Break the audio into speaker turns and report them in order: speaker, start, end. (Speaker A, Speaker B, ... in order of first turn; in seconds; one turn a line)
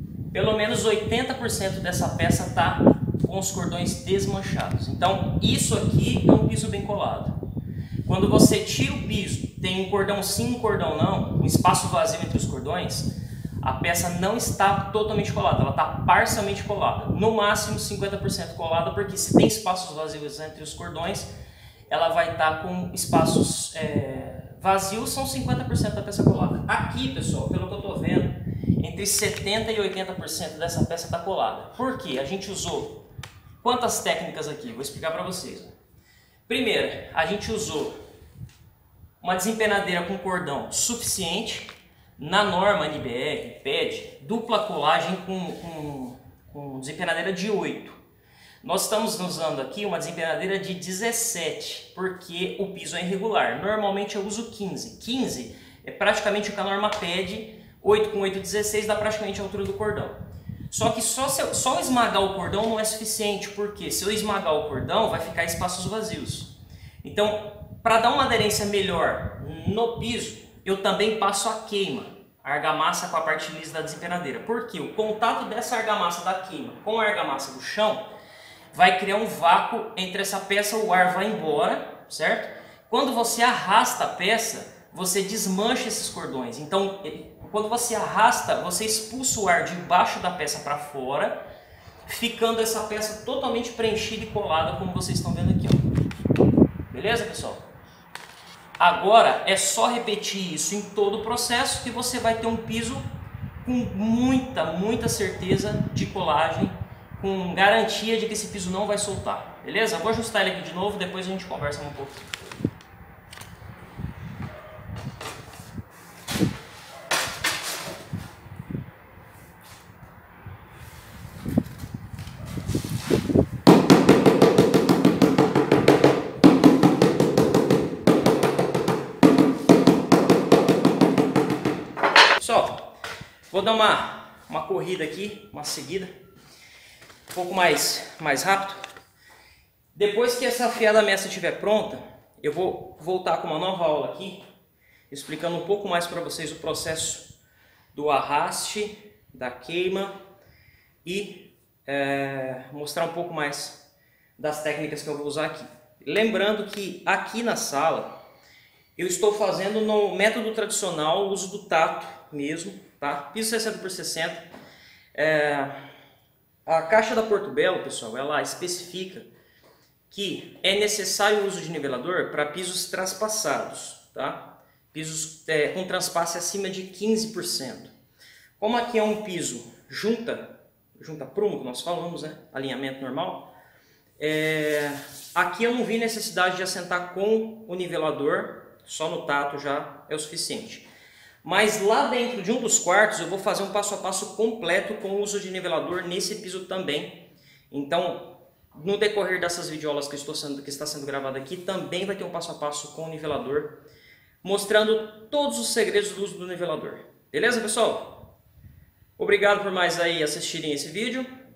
Speaker A: 0.3-7.4
Speaker A: 8.1-13.1
Speaker A: 13.6-21.3
Speaker A: 21.9-33.0
Speaker A: 33.6-35.7
Speaker A: 36.5-38.0
Speaker A: 39.2-48.0
Speaker A: 48.6-78.1
Speaker A: 78.7-91.4
Speaker A: 92.1-95.9
Speaker A: 96.9-97.7
Speaker A: 98.8-103.1
Speaker A: 103.6-112.3
Speaker A: 132.4-133.0
Speaker A: 133.5-136.1
Speaker A: 137.3-138.8
Speaker A: 139.9-144.4
Speaker A: 145.1-147.3
Speaker A: 147.9-150.2
Speaker A: 151.0-153.8
Speaker A: 154.4-158.1
Speaker A: 159.0-164.4
Speaker A: 165.2-165.7
Speaker A: 166.7-169.3
Speaker A: 170.1-177.9
Speaker A: 178.6-183.5
Speaker A: 184.2-190.9
Speaker A: 191.4-203.8
Speaker A: 204.4-208.3
Speaker A: 209.2-211.3